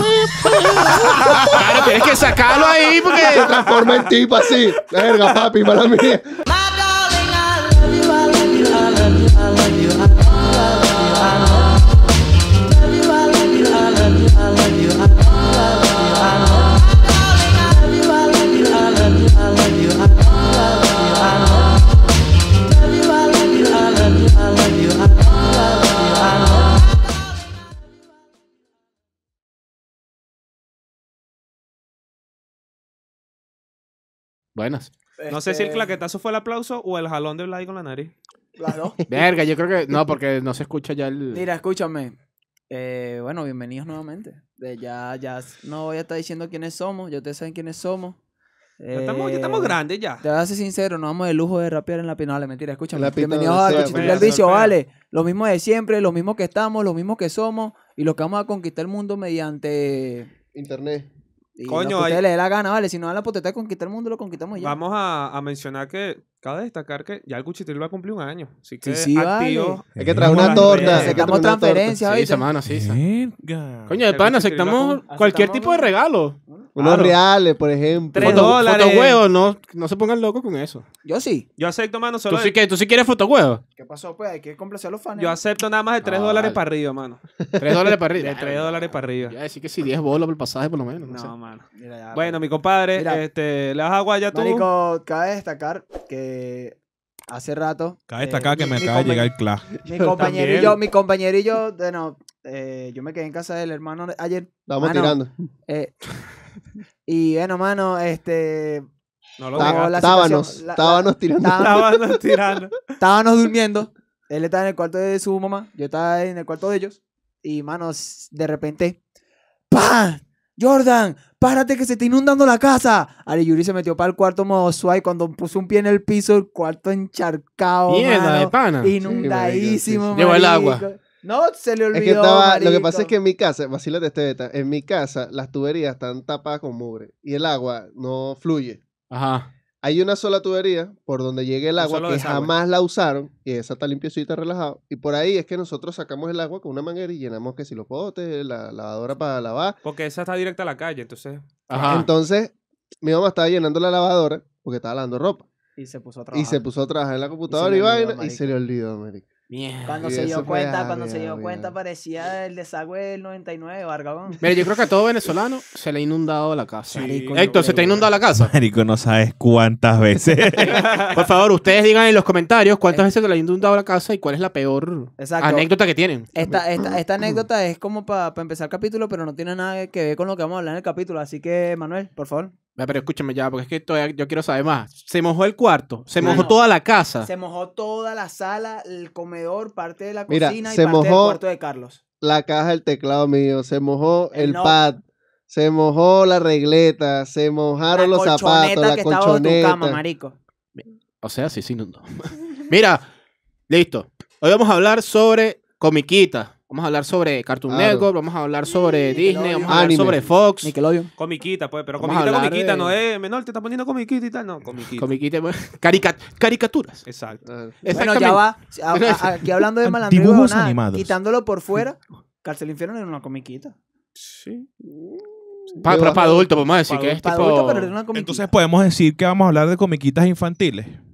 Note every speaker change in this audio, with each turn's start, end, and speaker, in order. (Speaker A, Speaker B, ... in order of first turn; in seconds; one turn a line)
Speaker A: 1.5-3.5
Speaker B: 3.1-4.0
Speaker C: 3.2-6.3
Speaker D: 8.7-9.0
Speaker D: 15.8-16.6
Speaker D: 18.5-19.0
Speaker D: 20.7-21.6
Speaker D: 25.0-26.6
Speaker A: 34.5-34.9
Speaker D: 35.2-36.0
Speaker B: 35.3-38.1
Speaker D: 38.6-39.0
Speaker A: 39.1-41.5
Speaker D: 41.3-42.1
Speaker D: 42.7-48.2
Speaker D: 48.8-60.3
Speaker B: 48.9-50.2
Speaker C: 52.9-54.3
Speaker B: 53.7-54.8
Speaker C: 60.5-61.1
Speaker D: 61.6-64.8
Speaker B: 61.7-62.2
Speaker B: 64.6-71.2
Speaker D: 68.8-69.8
Speaker E: 70.0-71.1
Speaker C: 70.0-72.0
Speaker D: 70.8-72.4
Speaker A: 72.0-73.0
Speaker E: 72.7-74.0
Speaker A: 73.9-76.4
Speaker B: 74.1-75.0
Speaker D: 75.1-75.9
Speaker C: 76.8-78.6
Speaker B: 76.8-77.1
Speaker B: 78.1-79.2
Speaker A: 78.2-80.8
Speaker D: 81.0-81.5
Speaker B: 81.6-82.5
Speaker A: 82.3-83.6
Speaker D: 83.8-85.4
Speaker B: 85.2-87.2
Speaker A: 86.0-86.6
Speaker A: 87.6-91.1
Speaker B: 88.2-89.4
Speaker B: 91.0-94.7
Speaker D: 91.1-92.4
Speaker D: 92.9-93.2
Speaker D: 94.3-96.8
Speaker D: 97.3-99.3
Speaker E: 98.1-99.7
Speaker D: 99.8-105.9
Speaker C: 99.9-100.2
Speaker B: 100.2-100.8
Speaker C: 104.7-105.5
Speaker D: 107.1-108.9
Speaker B: 109.4-110.2
Speaker D: 109.5-111.9
Speaker C: 109.6-111.9
Speaker B: 111.6-112.8
Speaker D: 113.0-119.0
Speaker D: 119.7-133.1
Speaker A: 127.9-128.9
Speaker C: 129.0-130.2
Speaker A: 130.2-130.8
Speaker C: 131.9-138.8
Speaker A: 139.1-139.5
Speaker C: 139.8-149.8
Speaker B: 141.8-142.5
Speaker B: 149.8-151.4
Speaker A: 151.7-152.1
Speaker C: 151.7-155.4
Speaker D: 155.8-156.6
Speaker C: 156.3-159.3
Speaker D: 157.5-158.5
Speaker A: 159.5-160.1
Speaker D: 159.8-164.4
Speaker C: 160.0-161.7
Speaker A: 164.4-168.5
Speaker B: 166.9-167.8
Speaker D: 166.9-168.1
Speaker E: 168.3-171.2
Speaker A: 170.8-176.3
Speaker B: 170.8-171.1
Speaker D: 175.2-175.7
Speaker D: 176.3-182.5
Speaker C: 176.4-177.4
Speaker A: 182.8-187.3
Speaker D: 186.2-186.6
Speaker D: 187.2-192.0
Speaker C: 190.3-191.4
Speaker C: 192.2-200.0
Speaker D: 194.3-194.8
Speaker D: 197.9-200.3
Speaker A: 200.8-203.1
Speaker A: 203.7-210.7
Speaker C: 207.7-208.1
Speaker D: 209.2-210.0
Speaker C: 209.7-210.2
Speaker D: 210.6-211.1
Speaker B: 211.2-215.1
Speaker A: 212.0-212.9
Speaker A: 215.0-217.0
Speaker B: 217.1-217.4
Speaker C: 217.5-217.8
Speaker A: 217.8-219.6
Speaker D: 217.9-223.8
Speaker E: 219.8-221.1
Speaker B: 224.2-224.7
Speaker C: 224.8-226.5
Speaker A: 225.8-227.9
Speaker B: 226.9-227.5
Speaker D: 227.2-228.5
Speaker E: 228.1-231.0